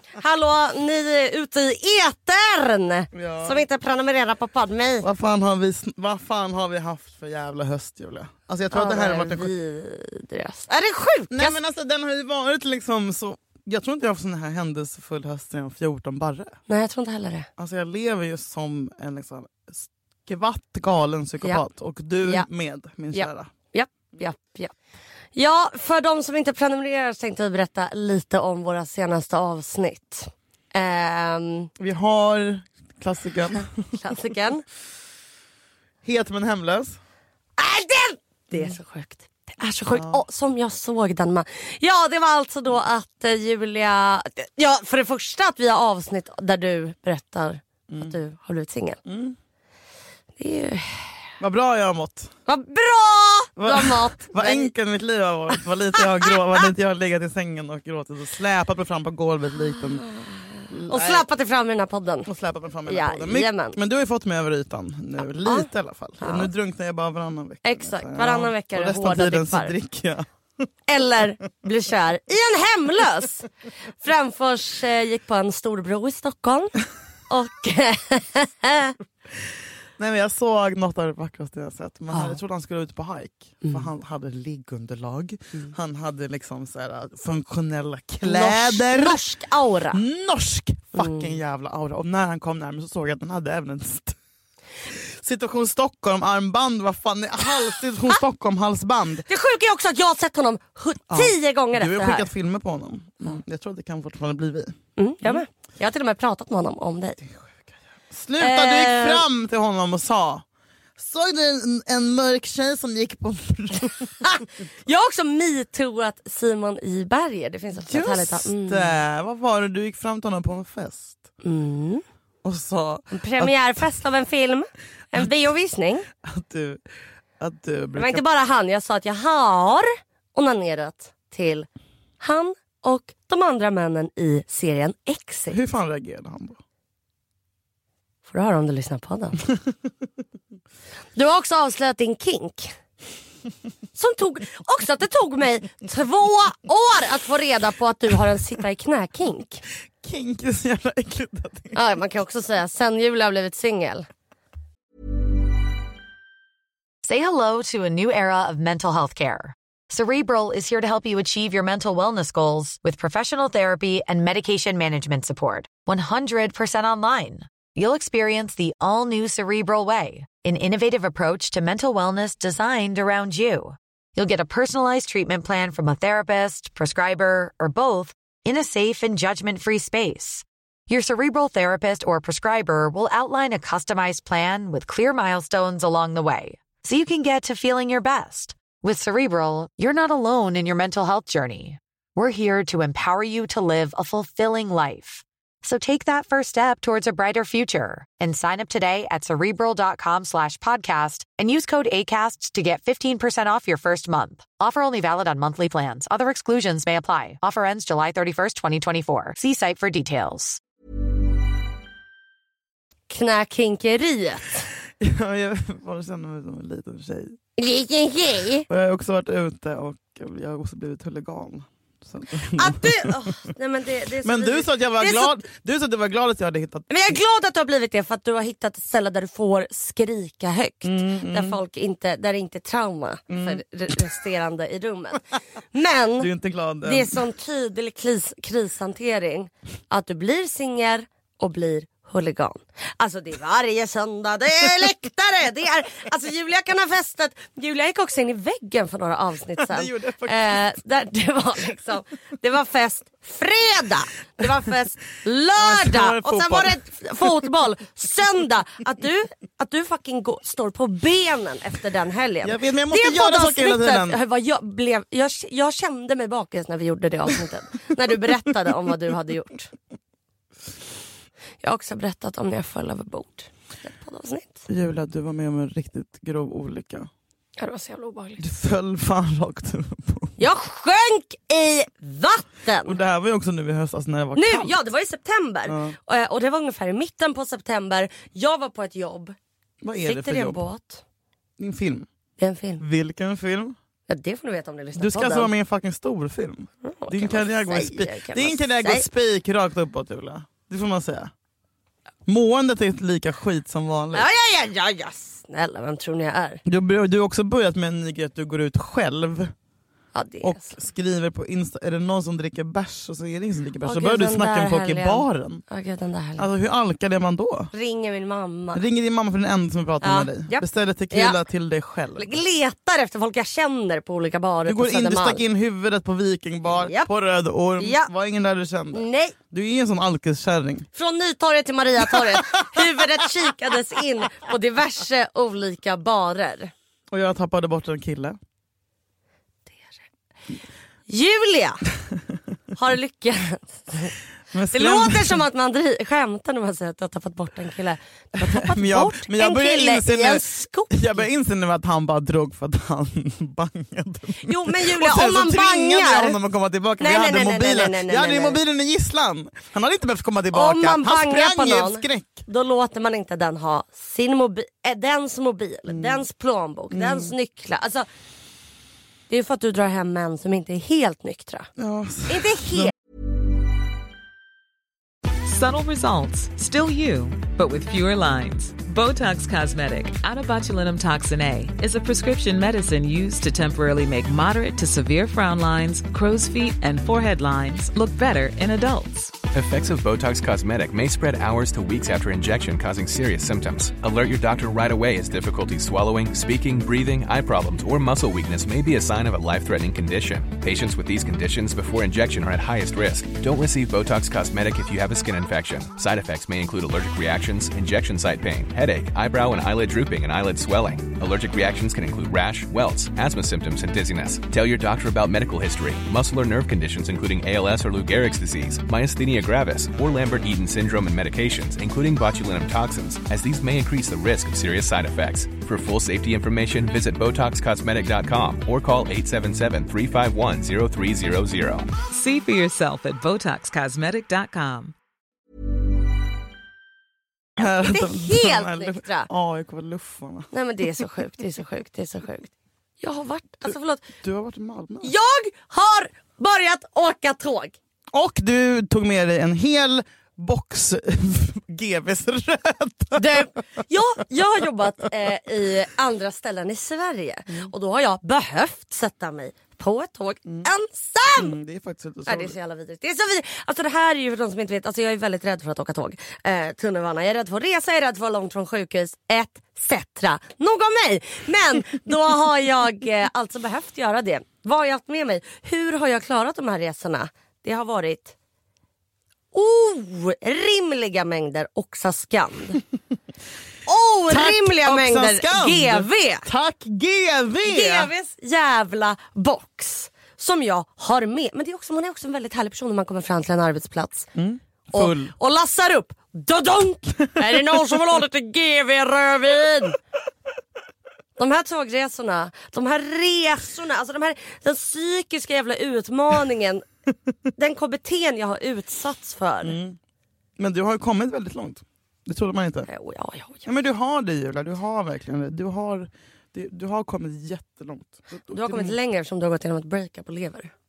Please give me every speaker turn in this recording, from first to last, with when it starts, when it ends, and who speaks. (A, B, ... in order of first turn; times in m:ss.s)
0:00.2-0:05.1 A
0:03.1-0:03.6 B
0:05.0-0:09.5 B
0:08.7-0:11.6 A
0:11.3-0:16.5 B
0:16.7-0:17.5 A
0:17.6-0:23.5 B
0:22.2-0:22.5 A
0:23.1-0:24.7 A
0:25.3-0:31.7 A
0:31.8-0:33.7 B
0:33.9-0:34.6 A
0:36.0-0:37.0 B
0:37.6-0:49.0 A
0:39.9-0:40.2 B
0:47.9-0:48.2 B
0:49.1-0:49.4 B
0:50.4-0:51.2 A
0:51.4-0:52.3 B
0:52.5-0:54.7 A
0:53.6-1:00.1 B
1:00.0-1:02.3 A
1:00.7-1:01.3 B
1:02.3-1:10.3 B
1:02.9-1:03.8 A
1:05.4-1:05.7 A
1:06.2-1:06.5 A
1:07.6-1:09.8 A
1:10.9-1:13.5 A
1:14.0-1:16.7 A
1:17.3-1:19.0 A
1:20.0-1:29.2 B
1:22.1-1:22.4 A
1:23.6-1:23.9 A
1:28.2-1:30.0 A
1:29.9-1:34.2 B
1:31.0-1:31.4 A
1:34.9-1:39.3 B
1:39.3-1:42.3 A
1:41.1-1:45.4 B
1:45.0-1:47.2 A
1:47.3-1:50.4 B
1:48.4-1:49.2 A
1:51.0-1:54.1 B
1:54.2-1:59.0 A
1:57.8-2:01.2 B
2:01.4-2:02.0 A
2:02.4-2:03.6 B
2:03.1-2:06.1 A
2:06.2-2:06.8 B
2:07.4-2:08.2 B
2:08.0-2:11.7 A
2:12.2-2:15.6 A
2:15.5-2:16.6 B
2:18.3-2:19.4 A
2:21.2-2:22.8 A
2:24.0-2:29.6 A
2:30.0-2:31.8 B
2:31.8-2:34.1 A
2:37.1-3:30.6 C
3:33.1-3:34.7 A
3:35.0-3:37.4 B
3:37.6-3:38.7 A
3:38.7-3:43.3 B
3:42.5-3:45.4 A
3:44.2-3:47.2 B
3:46.9-3:56.3 A
3:50.8-3:51.6 B
3:53.3-3:53.6 B
3:56.2-3:57.2 B
3:56.8-4:29.7 A
4:09.6-4:10.7 B
4:15.6-4:16.8 B
4:22.4-4:24.2 B
4:31.6-4:34.6 A
4:34.7-4:37.1 B
4:37.6-4:38.4 A
4:38.4-4:40.4 B
4:40.4-4:43.0 A
4:42.8-4:44.8 B
4:44.4-4:49.4 A
4:45.7-4:46.0 B
4:49.8-4:50.6 B
4:50.0-4:51.0 A
4:51.6-4:52.1 B
4:52.4-4:52.8 A
4:52.8-4:53.8 B
4:54.1-4:55.5 A
4:55.0-5:01.3 B
4:56.8-4:59.1 A
5:02.3-5:04.3 B
5:04.1-5:06.6 A
5:06.7-5:09.5 B
5:10.1-5:10.7 A
5:10.4-5:15.6 B
5:13.8-5:16.5 A
5:16.4-5:17.7 B
5:17.7-5:18.8 A
5:18.7-5:22.4 B
5:20.0-5:21.4 A
5:22.2-5:25.4 A
5:24.6-5:30.9 B
5:26.7-5:27.1 A
5:27.8-5:28.1 A
5:28.9-5:29.4 A
5:31.0-5:36.7 A
5:37.1-5:38.4 B
5:41.1-5:41.8 A
5:42.8-5:44.1 A
5:44.5-5:45.4 B
5:44.7-5:51.2 A
5:48.4-6:02.4 B
5:54.4-5:56.4 A
5:57.0-5:58.6 A
6:00.5-6:08.1 A
6:05.9-6:06.2 B
6:06.9-6:07.3 B
6:09.3-6:11.7 A
6:11.8-6:12.9 B
6:12.3-6:12.9 A
6:15.4-6:29.4 D
6:29.5-7:11.9 E
7:12.0-7:15.0 D
7:17.6-7:20.5 B
7:17.7-7:19.3 A
7:20.5-7:24.1 A
7:24.2-7:25.1 B
7:25.0-7:27.8 A
7:28.1-7:33.5 B
7:33.1-7:41.6 A
7:41.4-7:42.6 B
7:42.3-7:58.4 A
7:59.5-8:02.8 A
8:03.9-8:06.4 A
8:04.3-8:08.1 B
8:07.6-8:14.3 A
8:14.4-8:15.3 B
8:14.9-8:20.0 A
8:21.4-8:26.8 A
8:27.6-8:29.8 A
8:29.6-8:30.0 B
8:30.6-8:32.9 B
8:32.9-8:33.7 A
8:33.6-8:39.0 B
8:38.5-8:40.7 A